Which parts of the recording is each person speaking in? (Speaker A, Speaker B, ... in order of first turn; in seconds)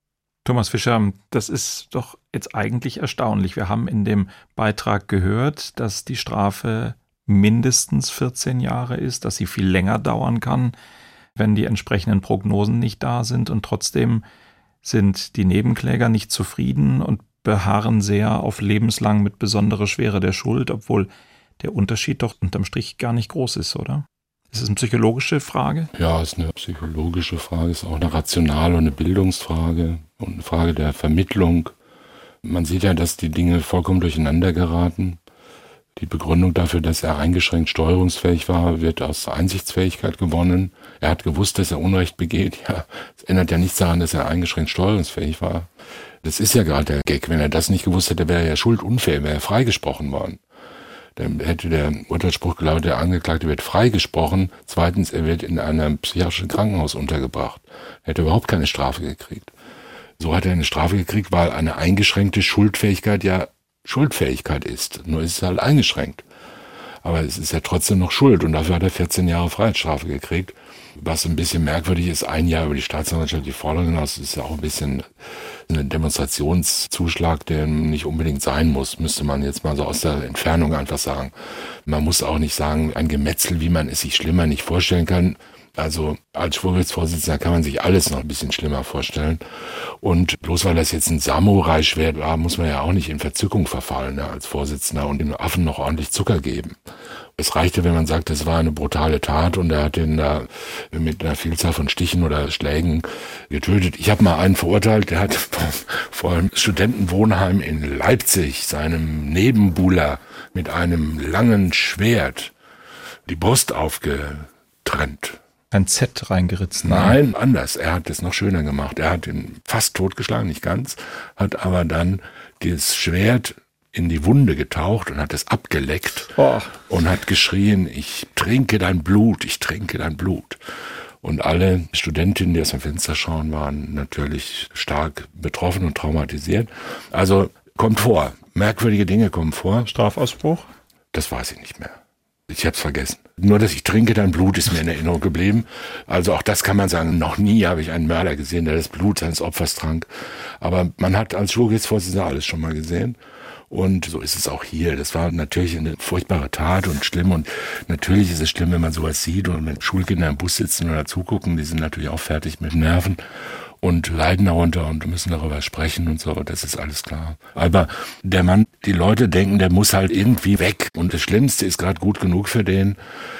Speaker A: 0.4-10.7, 11.3-14.2, 14.8-25.9, 115.7-117.2, 126.3-126.8, 139.8-140.7
Speaker B: 25.9-31.7, 32.4-35.2, 36.0-45.7, 46.2-50.4, 51.1-59.5, 60.2-66.2, 67.0-75.1, 75.7-81.3, 81.8-89.4, 90.0-96.8, 97.4-112.5, 113.2-115.4, 116.8-126.3, 126.9-130.6, 131.2-139.9, 141.1-142.0, 142.5-150.1, 150.6-153.2, 153.7-163.2, 163.8-173.0